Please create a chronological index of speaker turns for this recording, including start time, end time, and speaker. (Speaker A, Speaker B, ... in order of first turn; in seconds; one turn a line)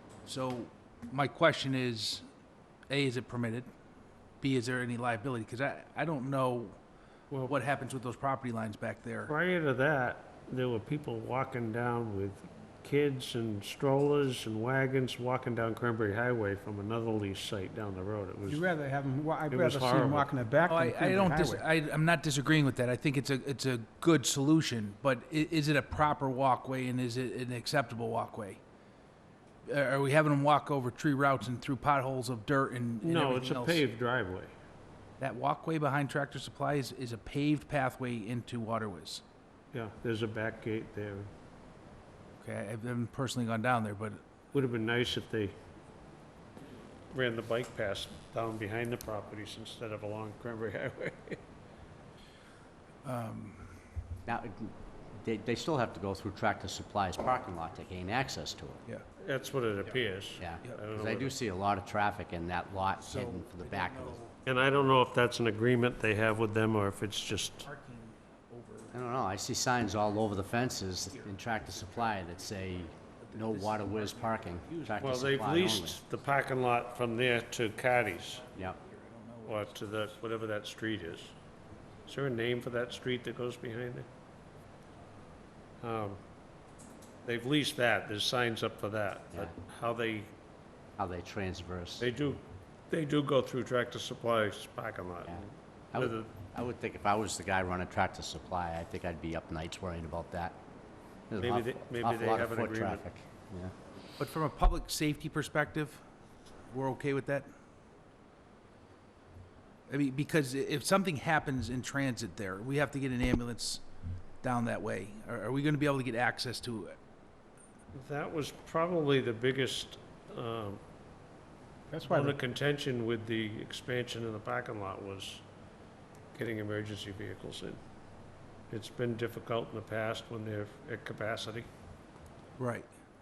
Speaker A: 0.3-2.2
Speaker A: 2.9-3.7
Speaker A: 4.4-6.8
Speaker A: 7.4-9.3
Speaker B: 9.3-18.6
Speaker C: 18.4-21.7
Speaker B: 19.5-20.4
Speaker A: 20.7-28.6
Speaker A: 29.7-33.9
Speaker B: 33.0-34.5
Speaker A: 35.2-39.2
Speaker B: 39.7-41.3
Speaker A: 42.4-44.2
Speaker B: 44.5-45.5
Speaker B: 47.1-51.4
Speaker A: 53.0-53.7
Speaker D: 54.3-58.8
Speaker B: 59.2-61.4
Speaker D: 60.4-64.2
Speaker A: 63.0-64.4
Speaker B: 64.5-67.7
Speaker A: 67.6-69.0
Speaker D: 68.9-76.0
Speaker A: 71.1-75.3
Speaker B: 75.0-78.5
Speaker A: 78.5-80.2
Speaker B: 79.5-81.3
Speaker B: 82.1-84.1
Speaker B: 85.8-86.2
Speaker B: 87.2-90.3
Speaker D: 91.0-92.1
Speaker B: 92.0-96.3
Speaker D: 95.3-100.6
Speaker D: 101.3-103.7
Speaker B: 101.4-103.0
Speaker A: 104.2-106.0
Speaker A: 106.7-107.5
Speaker A: 109.9-113.8
Speaker A: 114.4-117.0
Speaker B: 117.9-120.8
Speaker C: 121.9-122.4
Speaker B: 122.0-125.4
Speaker B: 126.3-127.8
Speaker B: 128.7-131.7
Speaker A: 132.6-132.9